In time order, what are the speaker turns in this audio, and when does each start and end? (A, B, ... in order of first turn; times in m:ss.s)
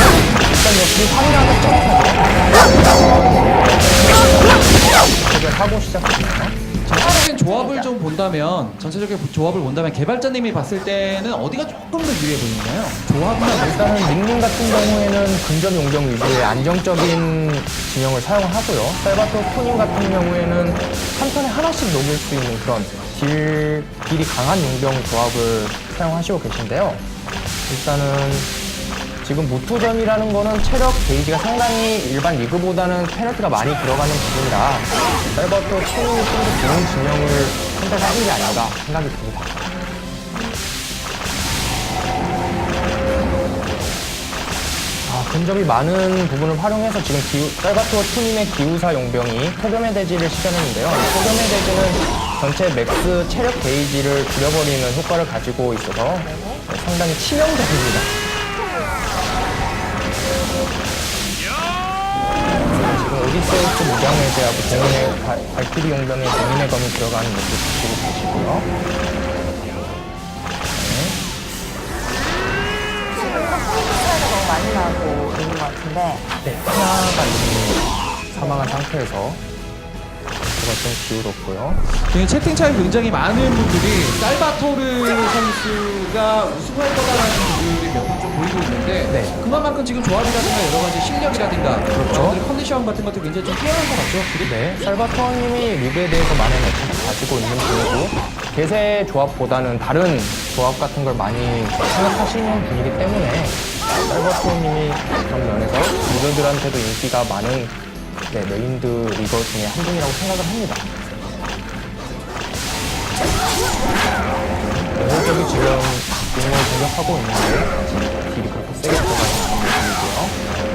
0:00.4-0:06.6 A
0:06.8-0:13.8 B
0:07.0-0:07.9 C
0:13.6-0:27.0 A
0:27.7-0:28.5 A
0:29.2-0:39.6 A
0:45.0-0:58.1 A
0:56.2-0:56.7 C
1:02.7-1:08.7 A
1:10.7-1:11.2 A
1:13.1-1:16.3 C
1:16.4-1:19.4 A
1:18.3-1:18.8 C
1:20.4-1:21.8 A
1:22.1-1:34.5 B
1:29.1-1:29.4 A
1:31.9-1:32.4 A
1:34.4-1:47.8 A
1:48.3-1:50.8 A
1:54.9-2:00.4 A